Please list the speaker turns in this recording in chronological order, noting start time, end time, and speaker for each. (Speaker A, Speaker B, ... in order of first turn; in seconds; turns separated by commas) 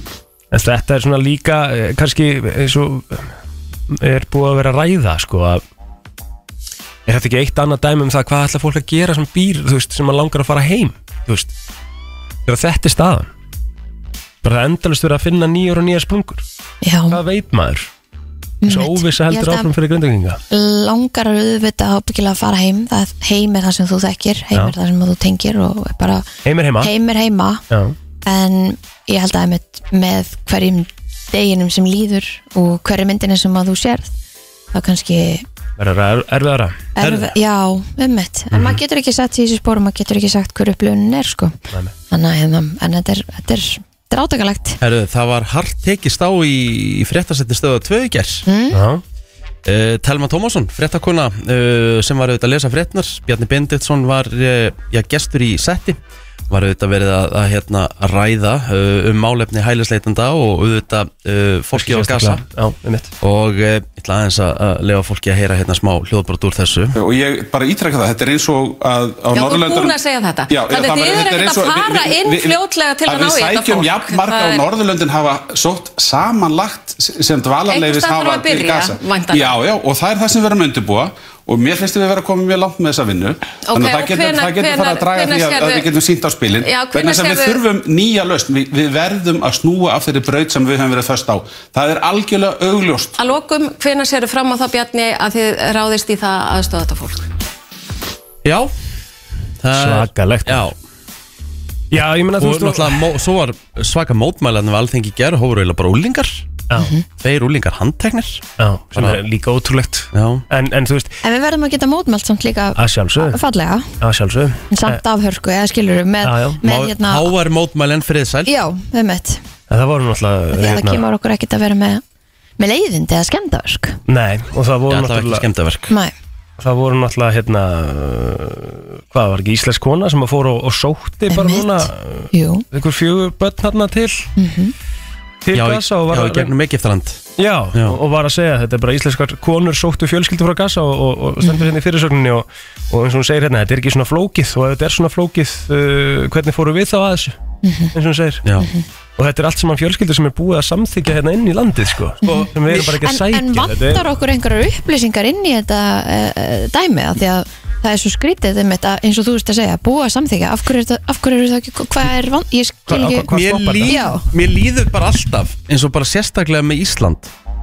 Speaker A: 0.5-3.3, Speaker A: 3.9-5.6, Speaker A: 7.0-11.5, Speaker A: 12.4-13.3, Speaker A: 14.4-16.4, Speaker B: 16.8-17.2, Speaker A: 17.1-17.9, Speaker B: 18.6-19.7, Speaker A: 18.6-20.4, Speaker B: 20.5-26.3, Speaker A: 26.4-26.9, Speaker B: 26.8-27.6, Speaker A: 27.7-27.9, Speaker B: 28.2-34.1, Speaker B: 34.7-35.4, Speaker A: 35.8-36.8, Speaker B: 37.0-41.5, Speaker C: 37.0-37.3, Speaker A: 38.5-38.8, Speaker B: 42.1-44.8, Speaker C: 44.8-48.4, Speaker B: 48.5-48.8, Speaker A: 48.7-49.0, Speaker C: 49.6-56.0, Speaker C: 56.5-62.4, Speaker A: 61.7-63.1, Speaker C: 63.2-66.9, Speaker D: 66.9-70.0, Speaker E: 69.3-74.6, Speaker D: 70.5-93.2, Speaker E: 77.7-79.5, Speaker E: 83.6-85.8, Speaker E: 86.6-87.6, Speaker E: 93.2-97.3, Speaker C: 98.4-98.7, Speaker C: 99.6-100.7, Speaker A: 99.7-100.7, Speaker A: 101.9-103.1, Speaker C: 102.4-106.5, Speaker B: 106.8-107.0, Speaker C: 107.2-108.4, Speaker A: 108.6-111.2, Speaker C: 110.1-110.4, Speaker B: 111.2-114.0, Speaker A: 112.8-113.4, Speaker A: 114.0-115.0, Speaker B: 114.7-117.3, Speaker A: 116.2-116.6, Speaker C: 116.6-118.5, Speaker B: 118.5-119.4, Speaker A: 119.7-121.0, Speaker B: 120.5-122.0, Speaker B: 122.6-124.0, Speaker A: 124.1-125.5, Speaker C: 124.9-125.9, Speaker A: 126.6-134.3, Speaker B: 131.3-132.7, Speaker B: 134.3-134.7, Speaker A: 135.4-136.5, Speaker C: 135.5-137.2, Speaker A: 137.4-147.4, Speaker B: 141.4-141.7, Speaker B: 147.6-147.9, Speaker A: 147.9-148.4, Speaker A: 149.2-154.1, Speaker C: 152.2-152.8, Speaker B: 152.2-163.3, Speaker A: 162.9-164.1, Speaker C: 163.3-167.3, Speaker B: 163.9-164.2